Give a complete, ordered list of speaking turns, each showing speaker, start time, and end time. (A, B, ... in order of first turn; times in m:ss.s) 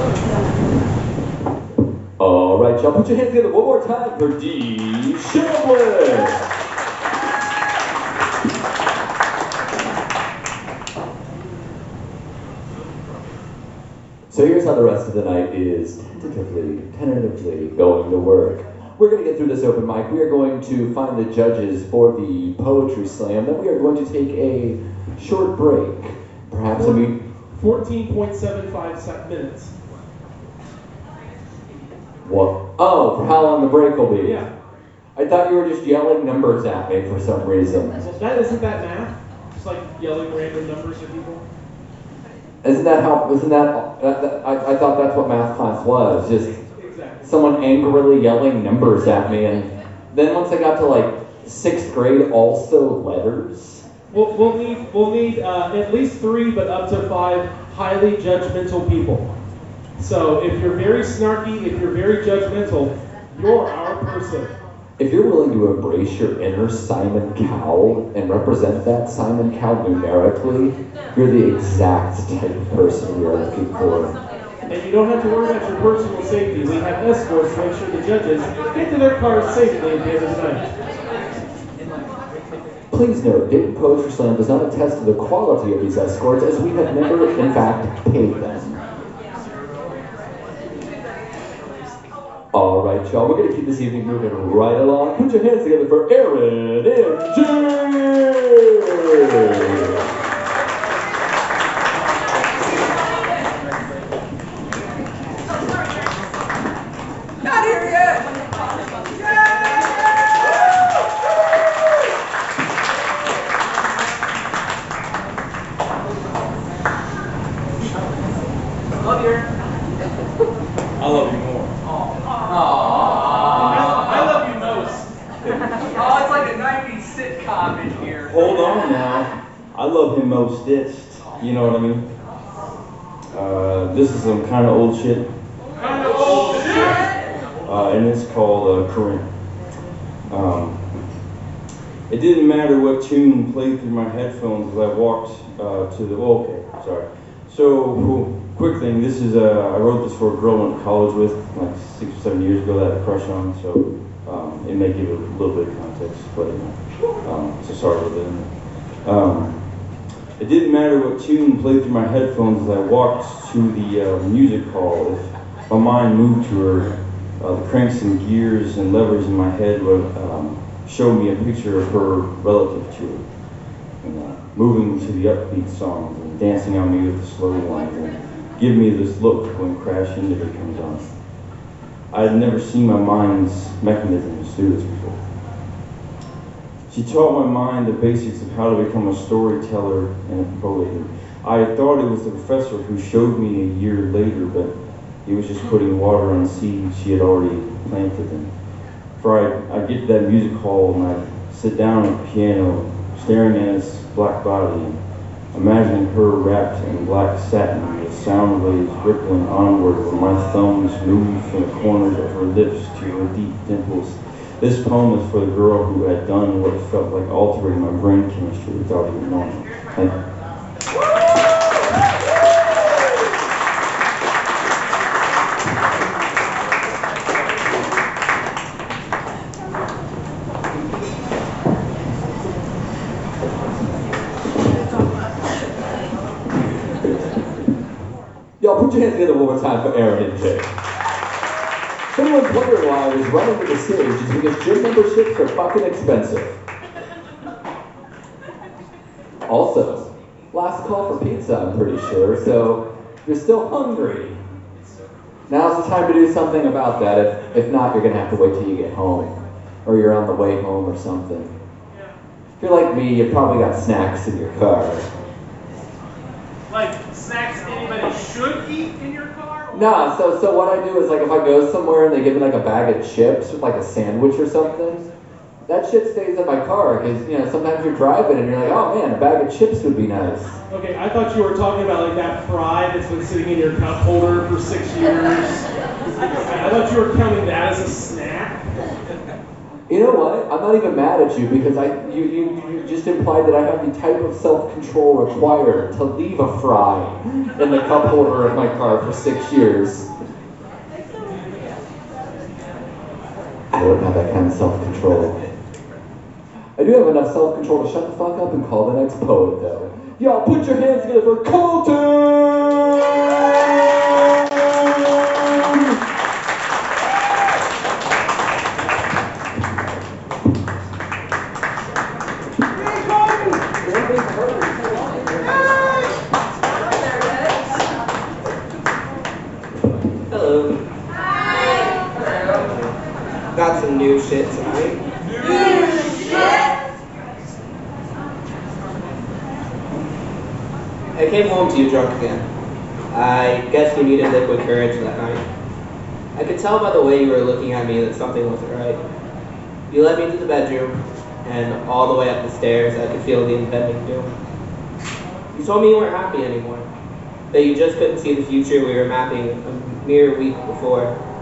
0:02.2-0:06.4 A
0:14.3-0:27.2 A
0:26.7-0:29.7 B
0:32.2-0:34.4 A
0:34.2-0:34.5 B
0:35.2-0:38.0 A
0:38.0-0:41.4 B
0:42.6-0:46.6 A
0:46.8-0:47.3 B
0:47.2-0:53.8 A
0:54.1-0:59.2 B
1:00.0-1:04.5 B
1:05.0-1:14.1 A
1:14.7-1:20.7 B
1:22.9-1:28.8 A
1:32.5-1:40.1 A
1:47.5-1:48.2 A
1:59.0-1:59.4 A
2:01.8-2:04.4 A
2:03.4-2:05.1 B
2:05.9-2:08.5 A
2:08.3-2:12.1 C
2:13.3-2:15.3 C
2:15.8-2:17.0 B
2:17.6-2:19.2 C
2:20.3-2:20.8 C
2:22.1-2:38.5 C
2:39.0-2:39.6 C
2:40.4-2:53.2 C
2:54.0-3:01.1 C
3:02.1-3:05.2 C
3:06.9-3:14.7 C
3:15.2-3:18.5 C
3:19.2-3:25.0 C
3:25.5-3:40.2 C
3:58.6-4:00.7 A
4:02.1-4:06.6 A
4:09.5-4:14.4 A
4:15.5-4:21.5 A
4:22.6-4:25.1 A
4:26.7-4:29.8 B
4:29.7-4:35.0 A
4:35.7-4:40.6 A
4:40.7-4:45.7 B
4:46.4-4:48.7 B
4:49.9-5:00.1 A
5:03.7-5:05.4 A
5:06.8-5:15.9 A
5:30.3-5:30.8 D
5:32.5-5:32.9 D
5:33.5-5:35.0 D
5:41.1-5:42.5 D
5:43.1-5:45.4 D
5:46.3-5:49.0 D
5:49.9-5:54.3 D
5:55.5-5:56.9 D
5:57.5-6:01.1 D